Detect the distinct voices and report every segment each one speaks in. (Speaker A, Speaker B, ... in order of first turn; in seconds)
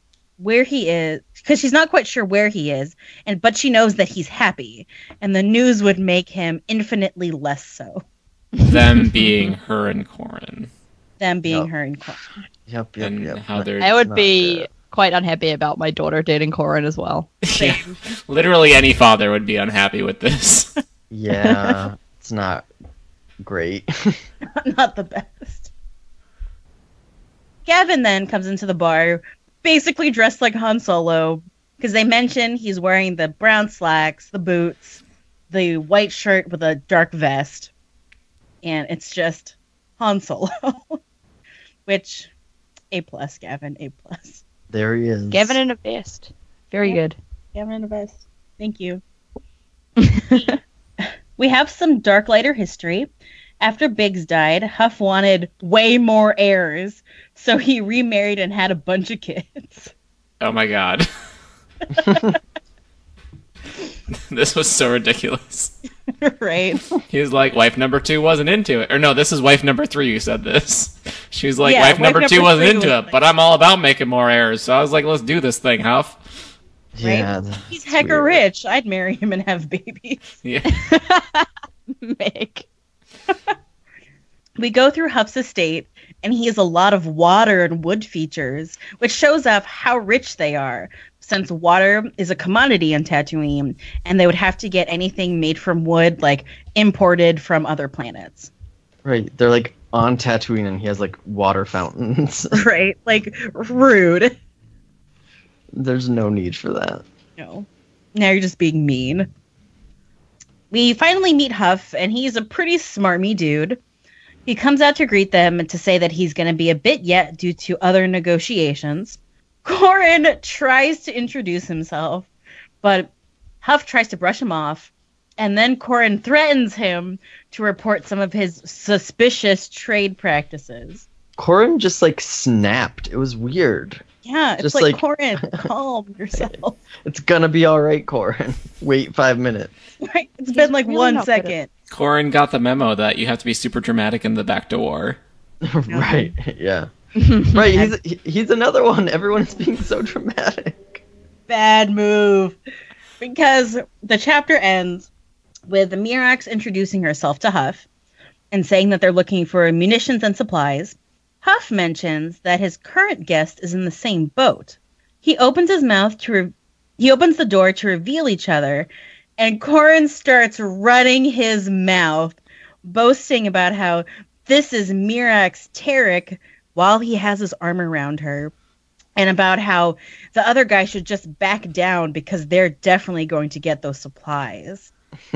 Speaker A: 0.4-8.0, 11.2-12.2, 17.5-18.0, 24.6-25.7, 27.7-37.7, 38.6-41.0, 41.9-42.3, 42.9-44.4, 47.5-49.0, 51.4-59.9, 62.0-62.3, 66.2-66.8, 71.6-73.1, 77.0-80.3, 84.6-98.5, 102.5-104.3, 107.4-109.3, 110.7-113.8, 114.5-122.3, 122.8-123.1, 123.6-131.1, 134.2-136.8, 140.0-141.7, 145.9-146.3, 151.5-152.6, 153.2-155.1, 155.7-157.9, 158.5-178.5, 179.2-184.9
Speaker B: 8.6-10.7, 13.0-14.0, 17.4-20.7, 60.4-61.1, 64.3-65.7, 67.1-76.2, 80.4-80.8, 141.9-145.2
Speaker C: 12.3-14.7, 21.1-22.7, 23.4-24.2, 44.7-45.6, 77.0-78.4, 99.0-102.6, 105.8-107.0, 131.4-134.0, 134.6-135.7, 136.3-139.7, 145.6-151.0
Speaker D: 13.8-17.3, 45.3-47.2, 50.0-50.5, 80.7-82.7, 140.5-141.5, 147.2-147.6